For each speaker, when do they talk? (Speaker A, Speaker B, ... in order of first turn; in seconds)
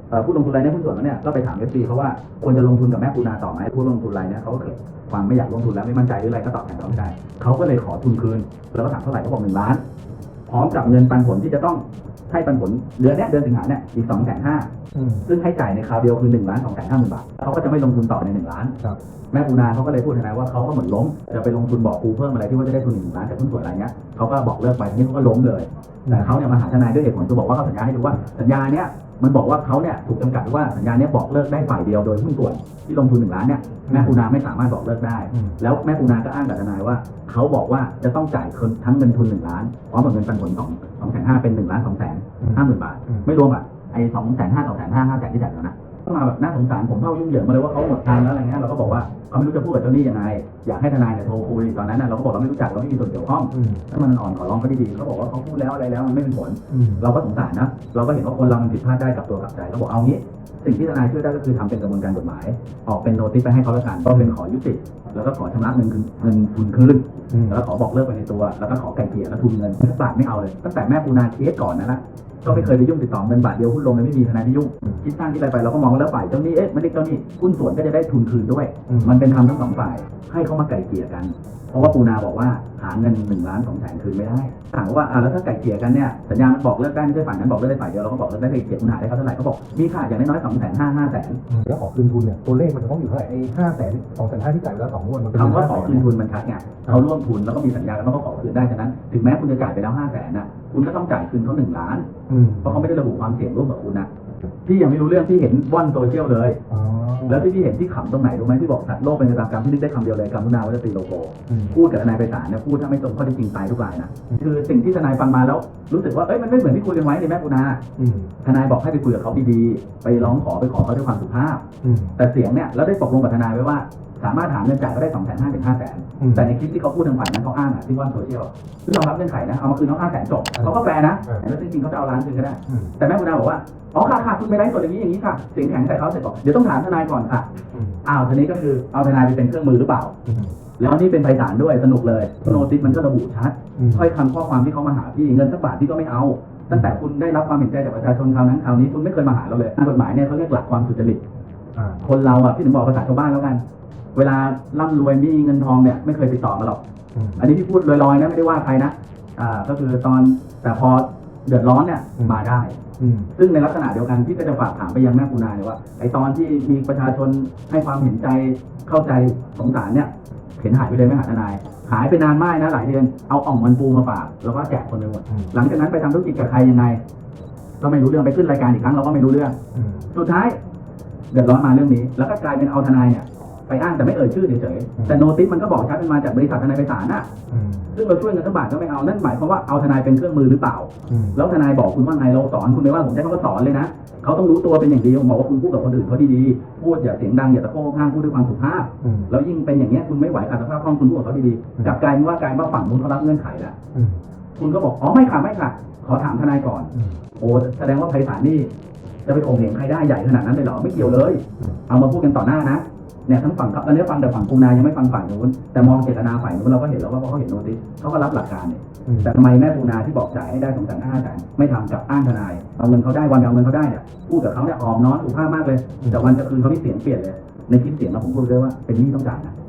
Speaker A: 0.1-9.8, 10.5-14.7, 15.2-18.8, 19.3-91.4, 95.3-102.1, 102.6-104.1, 104.6-106.6, 107.3-117.8, 118.4-121.7, 122.2-137.5, 138.0-140.1, 140.8-151.2, 152.0-153.6, 154.1-156.8, 157.4-177.0, 177.8-179.6, 180.1-180.6, 181.3-187.3, 187.9-203.8, 204.6-208.7, 209.2-229.6
Speaker B: 14.9-15.3, 26.1-26.4, 33.9-34.2, 35.3-35.6, 42.4-43.3, 53.5-53.8, 56.7-57.1, 64.1-64.4, 67.3-67.6, 72.5-72.8, 78.9-79.2, 91.5-96.1, 102.3-102.9, 106.7-107.5, 111.5-111.8, 118.0-118.3, 121.8-122.2, 126.2-126.5, 130.6-131.4, 132.7-132.9, 137.7-138.0, 140.2-140.6, 142.4-143.0, 143.8-144.1, 146.7-147.0, 151.8-152.0, 157.1-157.5, 163.0-163.3, 175.3-175.6, 179.7-180.1, 187.5-188.0, 191.1-191.4, 199.0-199.3, 203.9-204.2, 206.9-207.2, 210.9-211.8, 219.1-219.3, 226.0-226.3